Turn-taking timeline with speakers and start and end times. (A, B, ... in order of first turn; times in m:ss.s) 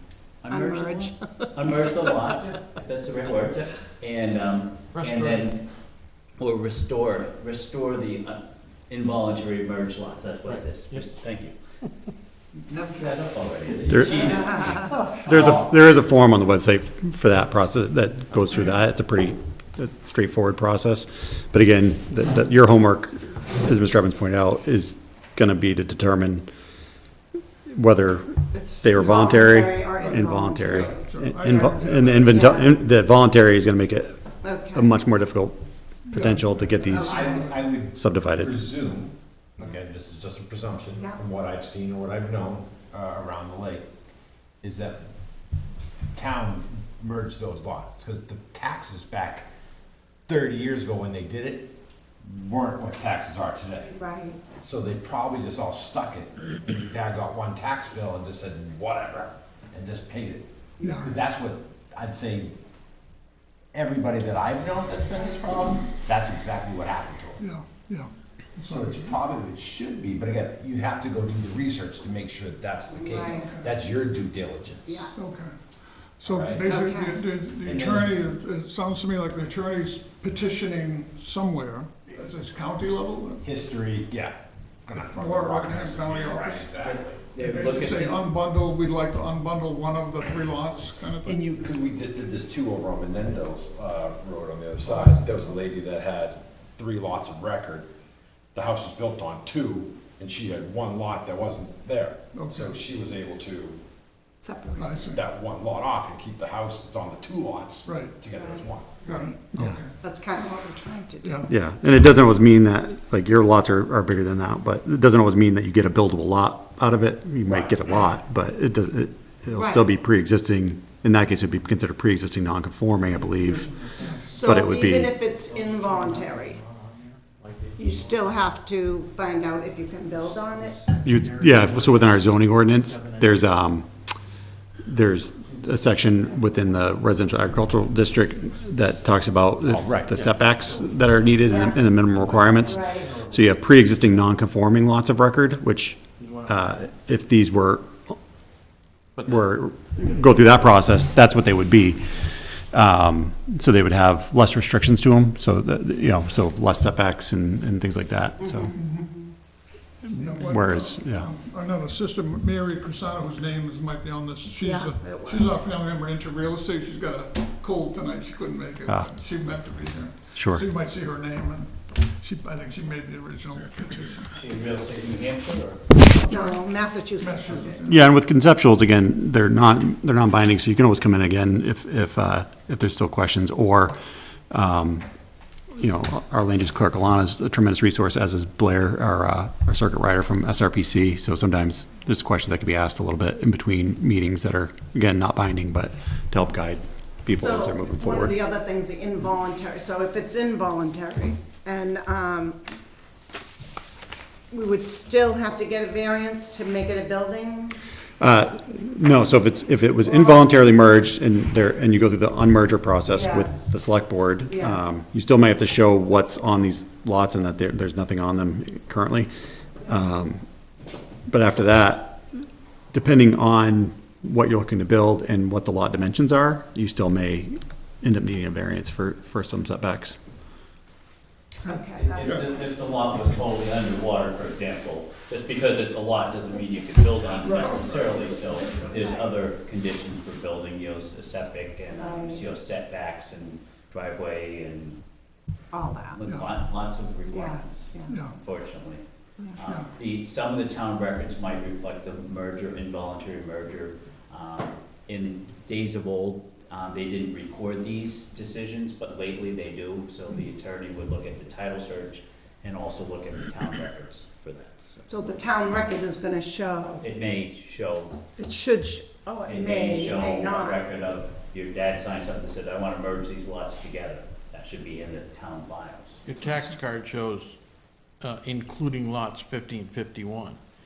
0:00.4-0:05.6 A
0:00.5-0:02.1 B
0:04.9-0:05.4 C
0:06.4-0:11.5 A
0:10.5-0:11.0 C
0:12.7-0:15.6 A
0:13.9-0:26.5 D
0:14.8-0:15.0 C
0:27.7-0:34.2 D
0:28.5-0:30.9 B
0:30.0-0:32.4 E
0:31.4-0:32.7 B
0:34.4-0:34.9 B
0:34.7-0:35.6 D
0:36.1-0:37.5 E
0:36.1-0:38.6 D
0:37.0-0:37.3 B
0:37.0-0:43.9 F
0:44.6-0:45.0 F
0:46.1-0:49.5 F
0:50.3-0:51.7 F
0:52.2-0:53.9 F
0:53.9-0:54.4 B
0:54.6-1:00.4 F
1:00.8-1:01.1 B
1:00.8-1:01.2 E
1:01.0-1:02.6 F
1:03.7-1:07.4 F
1:07.4-1:09.2 E
1:08.6-1:15.0 F
1:12.9-1:13.5 B
1:13.3-1:13.7 E
1:14.9-1:15.1 B
1:15.0-1:15.6 E
1:16.2-1:23.4 E
1:16.2-1:16.7 F
1:16.6-1:17.2 B
1:17.6-1:18.2 F
1:23.4-1:27.3 F
1:24.9-1:26.8 E
1:26.8-1:28.2 A
1:27.4-1:31.4 E
1:31.2-1:37.9 F
1:34.9-1:35.2 E
1:38.5-1:43.8 F
1:42.3-1:42.8 E
1:44.4-1:45.2 B
1:44.8-1:45.2 E
1:45.1-1:49.0 F
1:47.8-1:48.2 E
1:48.3-1:49.4 B
1:49.0-1:49.9 E
1:50.0-1:51.5 B
1:51.2-1:51.5 E
1:51.5-2:03.8 D
1:57.4-1:58.1 F
1:59.5-1:59.8 B
2:03.1-2:08.5 C
2:04.1-2:06.6 B
2:04.4-2:05.2 D
2:07.8-2:10.8 B
2:09.3-2:13.7 C
2:11.0-2:13.9 D
2:14.8-2:28.2 D
2:15.4-2:19.1 C
2:19.7-2:20.2 F
2:19.9-2:24.4 C
2:21.4-2:21.8 B
2:22.6-2:23.1 B
2:26.2-2:26.8 C
2:29.2-2:29.6 C
2:29.2-2:38.7 D
2:38.4-2:39.3 B
2:38.7-2:39.0 E
2:40.0-2:54.3 E
2:40.1-2:41.3 D
2:44.6-2:45.5 B
2:50.3-2:50.6 D
2:54.3-2:56.0 A
2:56.2-2:56.6 E
2:56.2-2:57.9 B
2:57.2-2:58.1 E
2:57.8-3:04.0 D
3:04.5-3:05.1 D
3:05.8-3:18.4 D
3:17.4-3:22.6 B
3:24.5-3:27.8 B
3:28.2-3:39.3 D
3:30.1-3:30.4 B
3:33.1-3:33.6 B
3:34.5-3:35.0 B
3:39.8-3:40.4 D
3:41.3-3:50.2 D
3:51.6-3:52.7 B
3:51.7-3:52.4 E
3:52.0-4:05.0 A
3:57.4-3:58.9 E
3:58.9-3:59.2 B
4:02.0-4:02.5 B
4:05.7-4:06.2 B
4:06.1-4:09.0 A
4:06.2-4:06.5 E
4:07.3-4:08.2 B
4:08.1-4:08.4 E
4:09.6-4:25.1 A
4:09.6-4:09.9 E
4:25.1-4:27.0 B
4:27.0-4:28.2 A
4:28.4-4:30.8 B
4:29.4-4:36.2 A
4:36.2-4:37.6 C
4:38.2-4:40.6 C